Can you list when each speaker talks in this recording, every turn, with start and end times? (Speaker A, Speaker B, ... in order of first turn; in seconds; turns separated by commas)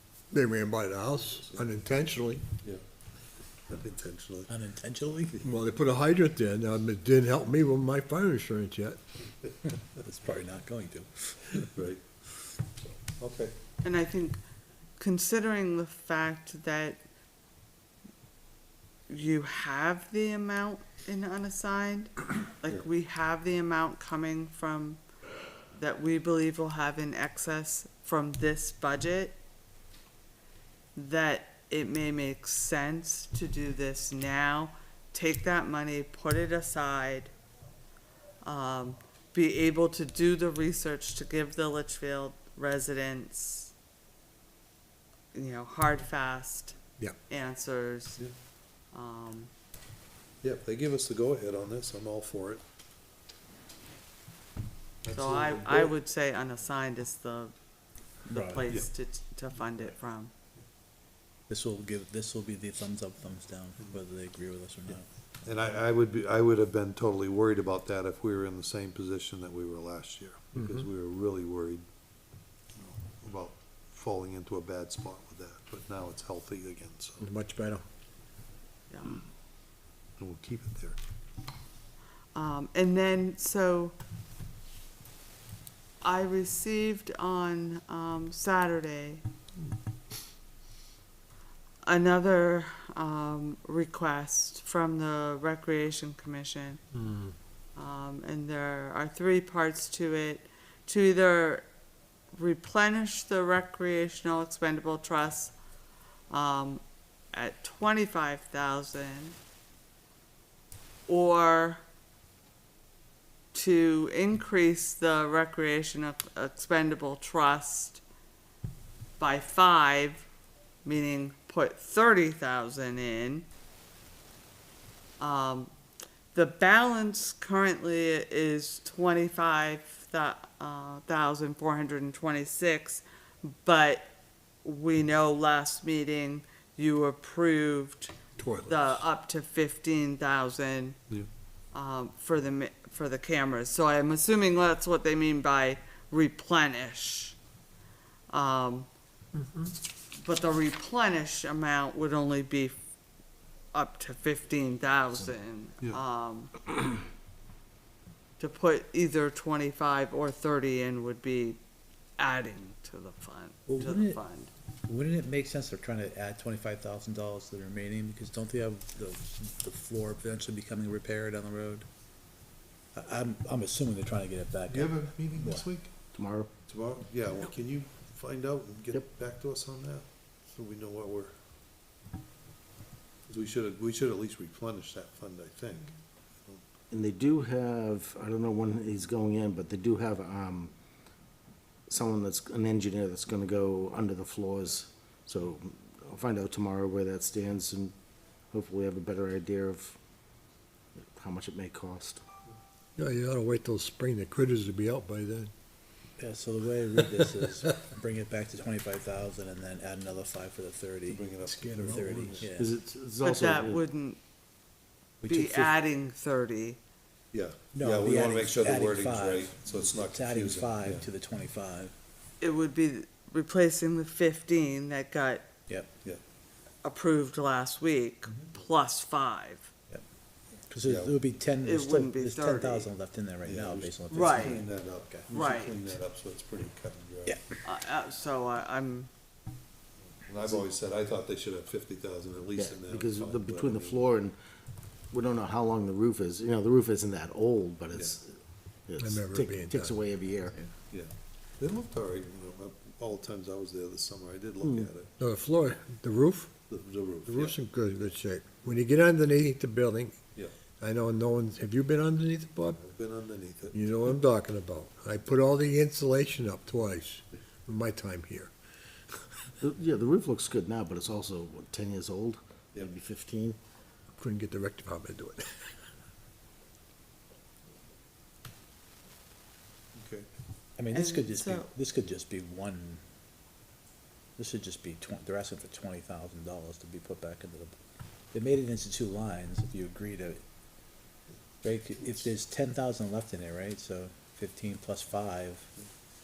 Speaker A: 0.3-2.5, Speaker B: 3.7-4.5, Speaker C: 4.5-5.4, Speaker A: 5.4-9.0, Speaker C: 10.0-11.7, Speaker B: 11.7-12.1, Speaker B: 12.8-13.6, Speaker D: 13.8-14.4, Speaker D: 15.0-17.0, Speaker D: 19.1-25.0, Speaker D: 25.7-29.4, Speaker D: 31.0-37.3, Speaker D: 38.4-43.7, Speaker D: 45.3-48.2, Speaker D: 48.9-49.5, Speaker B: 50.4-52.6, Speaker B: 55.0-56.0, Speaker D: 55.1-57.5, Speaker C: 58.3-58.7, Speaker D: 58.3-60.3, Speaker C: 61.5-65.0, Speaker B: 65.4-71.8, Speaker B: 72.8-77.3, Speaker A: 77.2-77.8, Speaker D: 78.9-79.2, Speaker B: 80.2-81.0, Speaker D: 82.3-84.0, Speaker D: 86.0-89.2, Speaker D: 91.8-96.8, Speaker D: 97.8-101.7, Speaker D: 102.3-105.5, Speaker D: 106.3-106.8, Speaker D: 107.3-109.4, Speaker D: 111.1-111.8, Speaker D: 113.5-118.0, Speaker D: 119.2-120.3, Speaker D: 120.8-123.5, Speaker D: 125.2-125.7, Speaker D: 126.3-134.1, Speaker D: 134.6-141.0, Speaker A: 138.4-139.0, Speaker D: 141.7-147.4, Speaker D: 148.3-148.9, Speaker D: 150.2-152.8, Speaker D: 153.7-156.7, Speaker D: 158.4-161.6, Speaker D: 162.2-164.5, Speaker C: 163.7-164.2, Speaker C: 164.9-171.9, Speaker C: 172.9-175.7, Speaker B: 174.7-175.9, Speaker E: 176.1-176.5, Speaker B: 176.6-181.3, Speaker B: 183.3-185.9, Speaker E: 186.9-190.7, Speaker E: 191.9-197.9, Speaker E: 198.5-200.0, Speaker E: 200.9-202.2, Speaker A: 203.0-205.5, Speaker C: 206.2-212.7, Speaker B: 211.1-212.4, Speaker A: 211.6-212.5, Speaker E: 212.6-213.8, Speaker D: 213.2-214.2, Speaker D: 215.2-216.8, Speaker C: 215.3-215.7, Speaker B: 217.3-221.1, Speaker C: 217.7-221.9, Speaker D: 222.4-225.5, Speaker C: 225.7-225.9, Speaker D: 226.8-229.7, Speaker B: 228.3-228.5, Speaker C: 230.7-235.3, Speaker B: 230.8-231.2, Speaker D: 231.6-232.9, Speaker B: 233.4-237.4, Speaker D: 234.1-234.7, Speaker D: 235.3-236.0, Speaker C: 237.2-237.6, Speaker D: 237.6-239.1, Speaker B: 240.2-244.1, Speaker E: 242.6-244.3, Speaker E: 245.1-250.6, Speaker B: 247.9-248.2, Speaker A: 249.0-250.0, Speaker B: 250.8-255.1, Speaker E: 254.6-254.9, Speaker A: 255.2-256.6, Speaker B: 256.6-257.6, Speaker A: 257.2-260.3, Speaker B: 260.3-260.7, Speaker A: 260.8-262.8, Speaker B: 262.7-264.2, Speaker A: 263.7-268.5, Speaker E: 269.6-273.6, Speaker A: 274.2-275.5, Speaker B: 279.9-280.3, Speaker C: 280.8-283.0, Speaker D: 280.9-281.7, Speaker C: 284.4-287.8, Speaker C: 288.3-290.4, Speaker C: 291.6-295.7